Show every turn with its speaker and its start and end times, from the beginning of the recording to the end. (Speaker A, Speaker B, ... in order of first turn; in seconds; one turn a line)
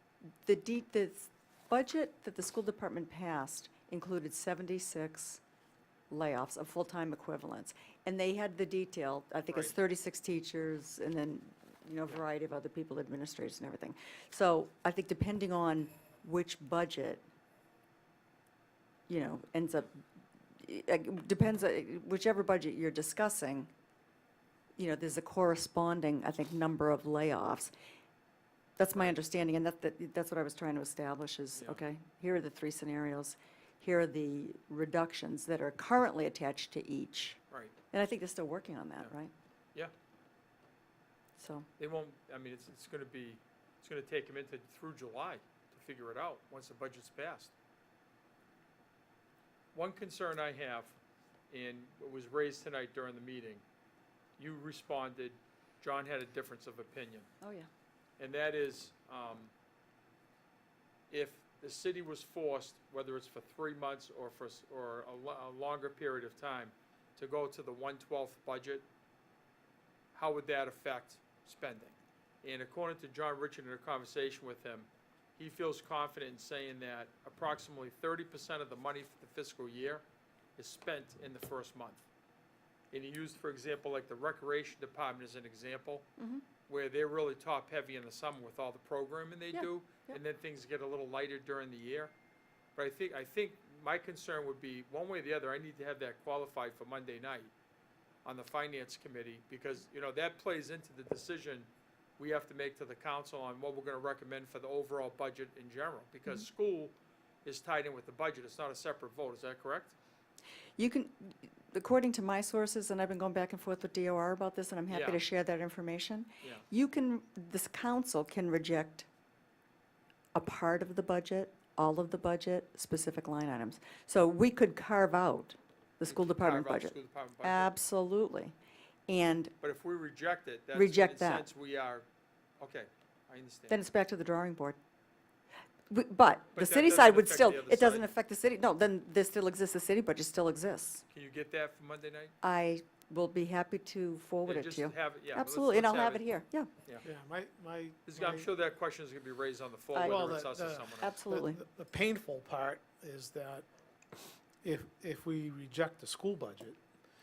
Speaker A: 0.4-5.4
Speaker A: 6.1-17.2
Speaker A: 19.1-20.0
Speaker A: 20.6-23.7
Speaker A: 24.8-27.7
Speaker A: 28.8-37.4
Speaker B: 31.6-31.8
Speaker A: 37.9-39.3
Speaker A: 41.4-41.7
Speaker B: 41.8-47.5
Speaker B: 49.7-51.0
Speaker B: 51.5-53.6
Speaker B: 54.4-57.3
Speaker A: 57.4-57.7
Speaker B: 58.2-59.5
Speaker B: 61.1-68.8
Speaker B: 70.1-80.0
Speaker B: 80.6-82.0
Speaker B: 82.9-86.1
Speaker A: 86.2-86.4
Speaker B: 86.7-92.1
Speaker A: 89.5-90.2
Speaker B: 92.8-97.5
Speaker B: 98.2-110.0
Speaker A: 110.8-119.1
Speaker B: 114.9-115.2
Speaker B: 116.4-116.7
Speaker A: 120.3-128.5
Speaker B: 126.0-127.7
Speaker A: 129.1-129.5
Speaker B: 129.6-132.1
Speaker A: 130.7-131.5
Speaker B: 132.6-133.8
Speaker A: 133.7-134.8
Speaker A: 135.9-141.0
Speaker B: 136.5-138.1
Speaker B: 141.1-142.3
Speaker A: 142.4-146.7
Speaker B: 144.4-146.2
Speaker C: 147.0-148.5
Speaker B: 148.1-151.1
Speaker A: 149.9-151.6
Speaker C: 150.0-156.8